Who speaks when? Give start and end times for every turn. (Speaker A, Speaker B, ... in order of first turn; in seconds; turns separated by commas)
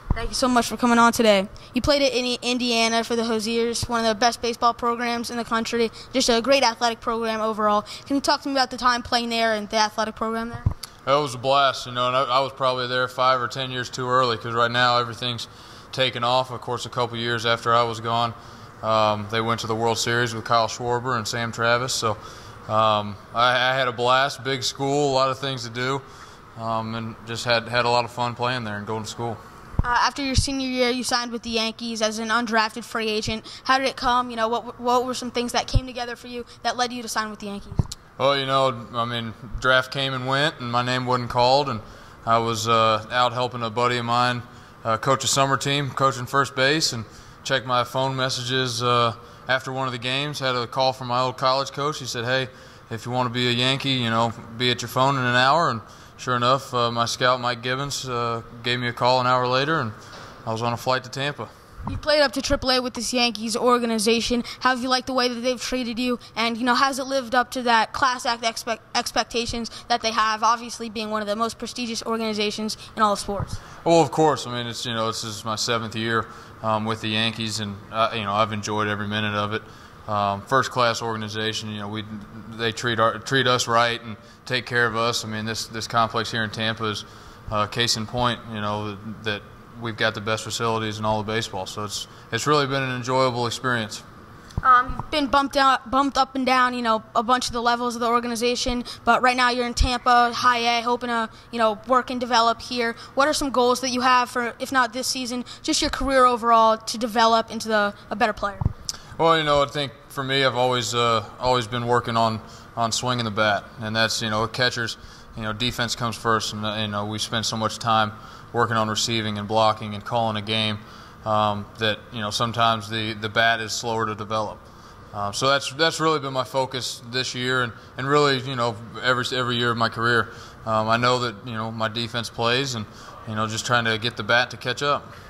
Speaker A: 0.1-10.7, Speaker B: 11.1-26.0, Speaker B: 26.6-29.4, Speaker A: 29.8-37.9, Speaker B: 38.2-59.9, Speaker B: 60.5-61.5, Speaker A: 61.9-73.6, Speaker B: 73.8-94.0, Speaker A: 94.6-108.7, Speaker B: 109.2-135.1